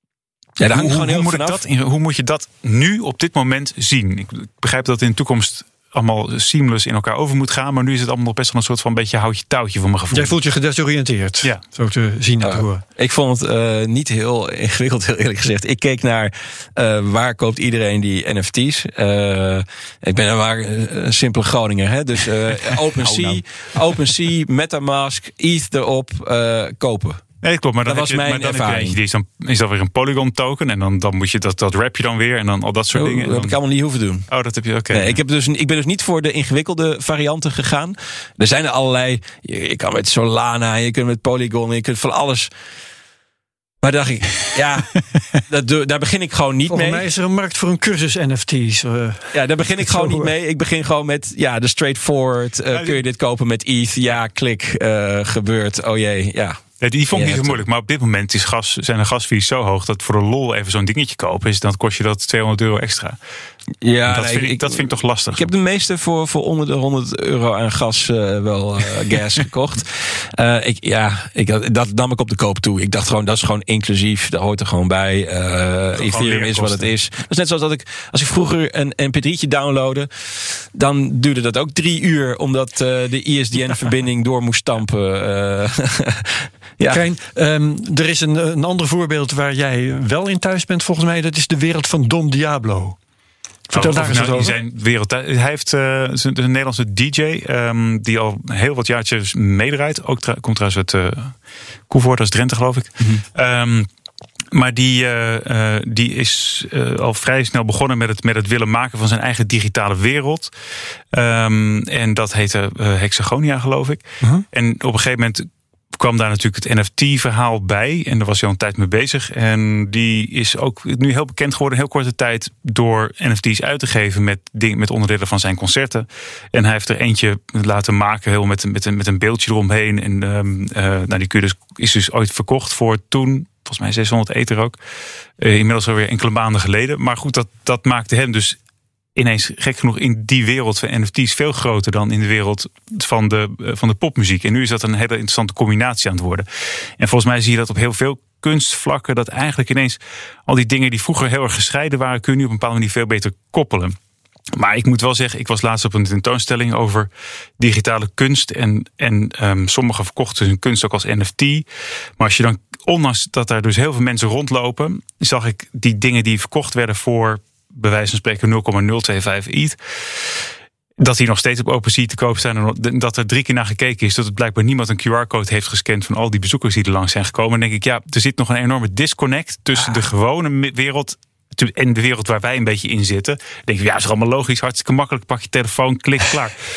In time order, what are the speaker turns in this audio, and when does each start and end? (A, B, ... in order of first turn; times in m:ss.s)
0:00.6-0:01.6 A
0:00.7-0:10.3 B
0:10.1-0:12.8 C
0:12.4-0:27.2 A
0:23.1-0:23.4 B
0:27.4-0:33.6 B
0:27.8-0:29.0 A
0:32.9-0:34.3 A
0:34.3-0:35.2 B
0:34.9-0:42.5 A
0:43.8-0:47.1 A
0:46.7-0:50.3 C
0:49.3-0:57.6 A
0:56.8-1:03.2 B
1:03.8-1:27.0 A
1:04.1-1:05.5 B
1:16.0-1:16.9 B
1:26.9-1:33.0 C
1:33.7-1:34.6 C
1:33.7-1:41.4 B
1:41.9-1:43.9 B
1:44.5-1:50.5 B
1:51.1-2:14.8 B
2:15.4-2:18.6 B
2:19.2-2:26.5 B
2:27.0-2:34.0 B
2:34.6-2:41.6 B
2:42.2-2:49.8 B
2:51.0-3:06.6 B
2:59.8-3:00.0 A